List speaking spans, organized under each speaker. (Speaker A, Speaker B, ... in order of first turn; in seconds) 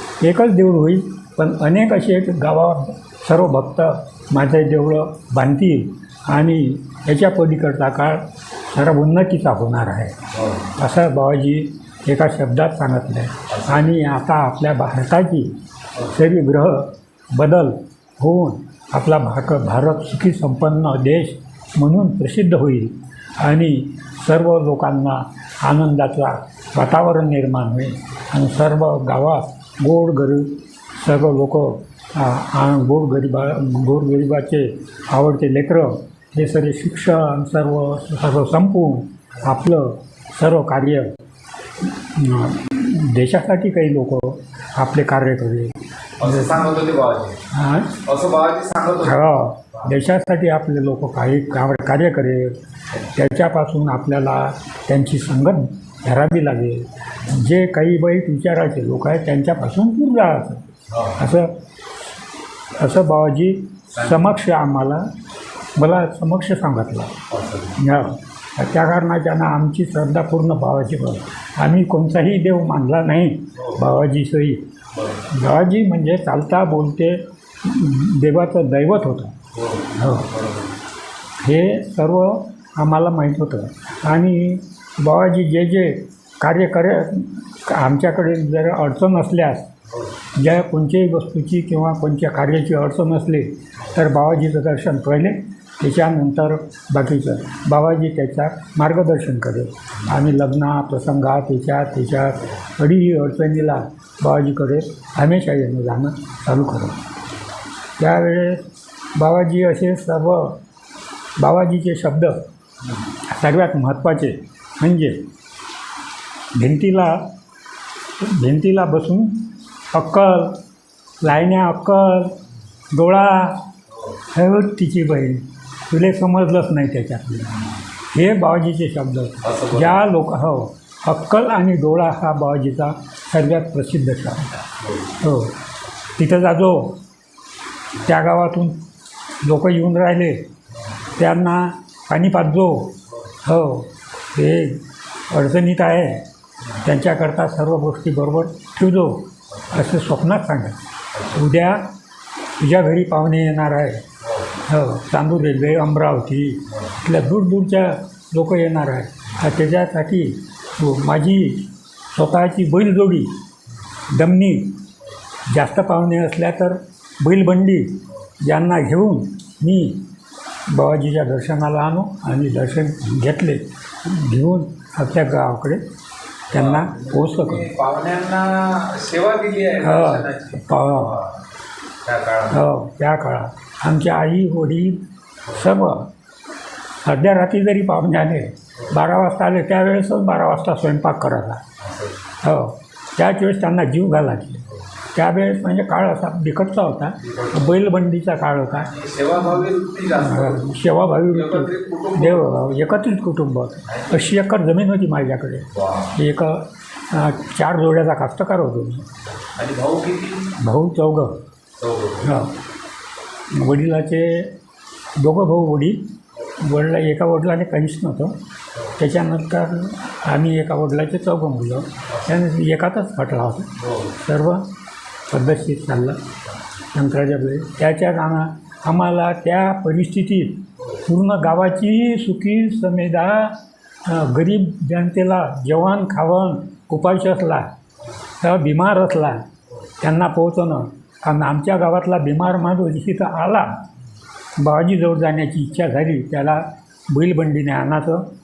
Speaker A: 0.2-10.2, 10.8-41.2, 41.8-46.6, 47.5-48.0, 49.0-61.5, 62.8-65.1, 65.8-67.2, 67.8-74.6, 75.3-79.4, 80.0-80.3, 81.4-89.7, 90.3-107.0, 108.0-110.6, 111.4-112.4, 113.3-115.2, 116.5-117.2, 118.2-120.6, 121.2-122.4, 122.9-123.7, 124.3-134.7, 135.2-135.6, 136.2-137.0, 138.0-138.8, 139.4-140.4, 141.2-151.9, 152.6-154.0, 154.7-163.3, 164.1-164.8, 165.5-170.0, 170.7-175.8, 176.5-177.7, 179.8-181.2, 182.5-186.1, 187.0-191.6, 192.4-198.9, 200.2-209.1, 210.6-211.4, 212.2-212.6, 213.5-214.5, 215.2-216.0, 216.6-218.4, 219.0-224.7, 225.3-226.2, 226.9-237.7, 238.4-239.5, 240.0-243.7, 244.6-248.3
Speaker B: 10.3-10.7, 13.5-13.9, 46.2-47.4, 48.0-49.9, 60.9-61.2, 64.0-64.2, 67.3-67.8, 73.6-73.8, 74.9-75.3, 79.5-80.7, 129.4-130.0, 134.8-135.2, 151.1-151.4, 154.2-154.6, 176.5-181.4, 182.0-182.6, 191.8-192.2, 197.2-197.8, 198.7-200.7, 201.3-202.6, 203.9-204.2, 205.7-206.2, 209.6-210.5, 211.8-212.4, 223.8-224.2